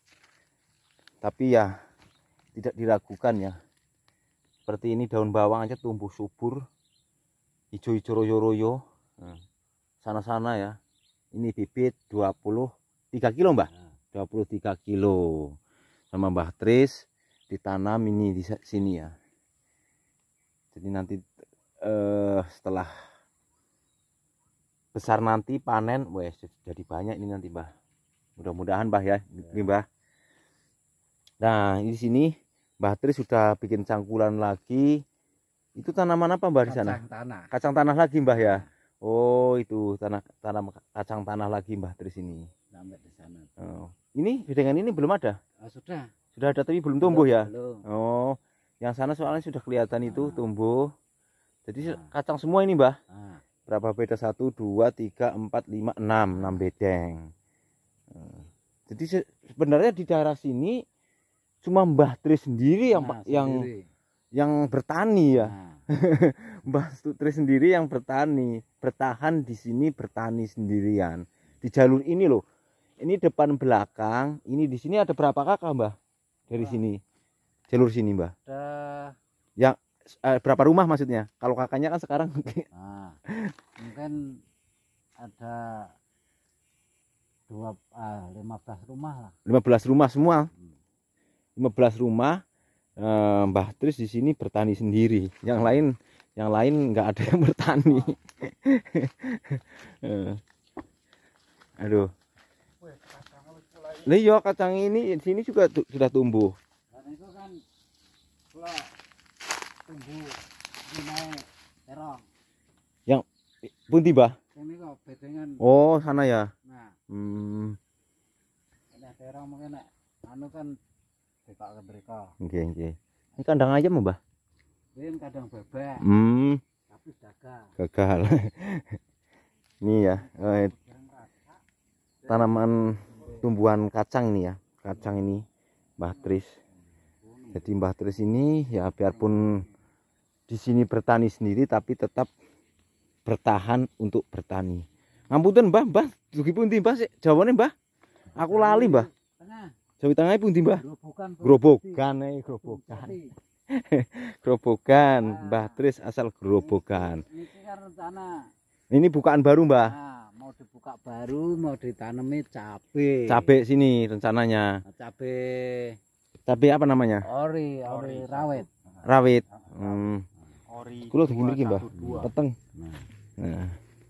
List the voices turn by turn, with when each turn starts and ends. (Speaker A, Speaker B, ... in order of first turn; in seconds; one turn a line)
Speaker A: 1.2-1.7
Speaker A: 2.5-3.6
Speaker A: 4.7-6.6
Speaker A: 7.7-9.4
Speaker A: 10.0-10.8
Speaker A: 11.3-15.6
Speaker A: 16.1-19.1
Speaker A: 20.7-21.2
Speaker A: 21.8-22.9
Speaker A: 24.9-27.7
Speaker A: 28.4-29.9
Speaker A: 31.4-35.0
Speaker A: 35.8-37.0
Speaker B: 36.7-37.5
Speaker A: 37.5-42.5
Speaker B: 38.3-38.7
Speaker B: 42.7-43.6
Speaker A: 43.6-45.4
Speaker B: 45.6-46.1
Speaker A: 46.4-50.9
Speaker B: 47.0-47.8
Speaker B: 50.0-50.5
Speaker A: 51.7-53.0
Speaker B: 51.8-52.1
Speaker B: 53.1-53.4
Speaker A: 53.7-57.3
Speaker B: 56.4-56.6
Speaker A: 58.1-60.8
Speaker A: 61.6-63.7
Speaker B: 62.9-63.9
Speaker A: 64.3-72.4
Speaker B: 65.4-65.8
Speaker A: 73.0-76.0
Speaker A: 76.5-77.0
Speaker B: 76.5-76.8
Speaker A: 77.7-78.3
Speaker B: 78.5-79.2
Speaker A: 79.6-82.7
Speaker B: 82.7-83.2
Speaker A: 83.3-83.5
Speaker B: 83.8-84.4
Speaker B: 85.2-86.0
Speaker B: 87.5-89.3
Speaker A: 89.5-90.5
Speaker A: 91.6-92.4
Speaker A: 93.0-100.4
Speaker A: 101.8-102.1
Speaker C: 102.8-104.1
Speaker A: 104.0-106.6
Speaker B: 106.9-107.6
Speaker B: 108.5-109.0
Speaker B: 109.9-112.3
Speaker A: 113.1-114.4
Speaker B: 114.5-115.6
Speaker A: 115.6-116.5
Speaker B: 116.7-117.0
Speaker A: 117.1-117.8
Speaker B: 118.9-120.8
Speaker B: 121.5-122.3
Speaker A: 122.4-124.2
Speaker B: 125.0-126.0
Speaker A: 126.0-126.6
Speaker B: 126.9-127.7
Speaker A: 127.8-129.0
Speaker A: 129.8-130.7
Speaker B: 132.2-133.3
Speaker A: 132.3-135.4
Speaker A: 136.0-136.6
Speaker C: 137.2-137.6
Speaker A: 137.5-139.7
Speaker A: 140.5-142.3
Speaker A: 143.3-147.7
Speaker B: 148.3-149.7
Speaker A: 148.4-149.1
Speaker A: 150.0-150.8
Speaker B: 150.7-153.3
Speaker A: 151.4-153.2
Speaker A: 153.7-157.2
Speaker B: 155.0-155.8
Speaker B: 156.6-158.5
Speaker A: 158.9-159.9
Speaker B: 159.9-163.5
Speaker A: 163.3-164.8
Speaker B: 164.9-166.0
Speaker A: 166.5-167.3
Speaker B: 167.3-168.7
Speaker C: 167.8-170.1
Speaker A: 169.1-170.2
Speaker C: 170.7-172.3
Speaker A: 171.1-172.6
Speaker B: 172.8-173.1
Speaker A: 173.4-173.8